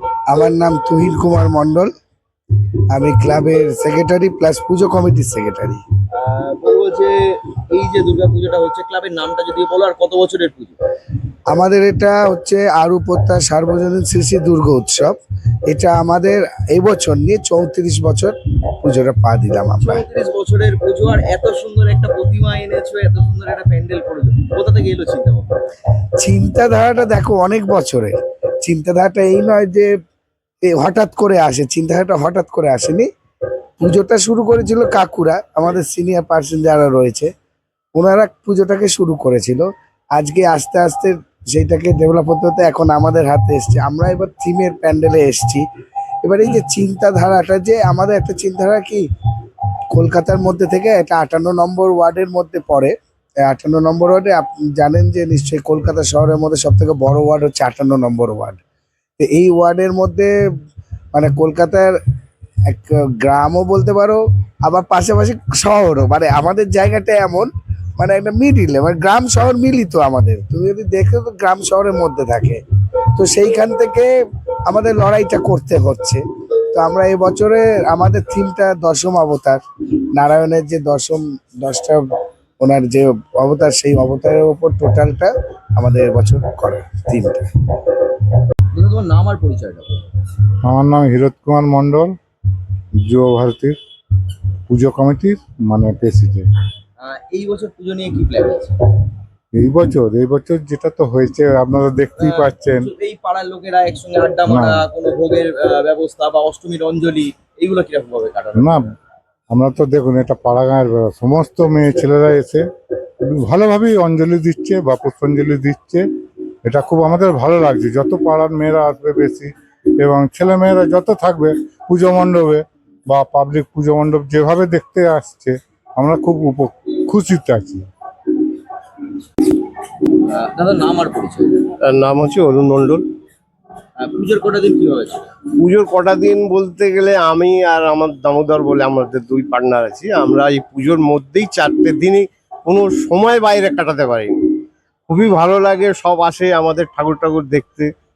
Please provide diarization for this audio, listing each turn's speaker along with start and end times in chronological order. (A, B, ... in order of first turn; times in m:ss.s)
0:00.3-0:01.9 A
0:02.9-0:05.8 A
0:06.2-0:10.8 B
0:11.5-0:15.2 A
0:15.7-0:20.0 A
0:19.8-0:25.5 B
0:26.2-0:29.9 A
0:30.6-0:33.1 A
0:33.8-0:37.3 A
0:38.0-0:39.6 A
0:40.2-0:45.6 A
0:46.2-0:49.0 A
0:49.9-0:52.9 A
0:53.4-0:58.6 A
0:59.2-1:00.3 A
1:01.1-1:01.9 A
1:02.7-1:12.6 A
1:13.2-1:14.1 A
1:14.7-1:16.2 A
1:16.7-1:19.6 A
1:20.1-1:22.0 A
1:22.6-1:27.4 A
1:28.7-1:30.0 B
1:30.6-1:32.2 C
1:33.0-1:33.8 C
1:34.7-1:36.4 C
1:37.0-1:38.7 B
1:39.5-1:42.9 C
1:42.2-1:48.8 B
1:44.5-1:44.8 C
1:48.6-1:48.8 C
1:49.5-1:52.6 C
1:53.3-1:56.0 C
1:56.6-2:07.9 C
2:10.2-2:11.6 B
2:11.9-2:13.0 D
2:14.0-2:15.3 B
2:15.6-2:24.4 D
2:25.1-2:27.9 D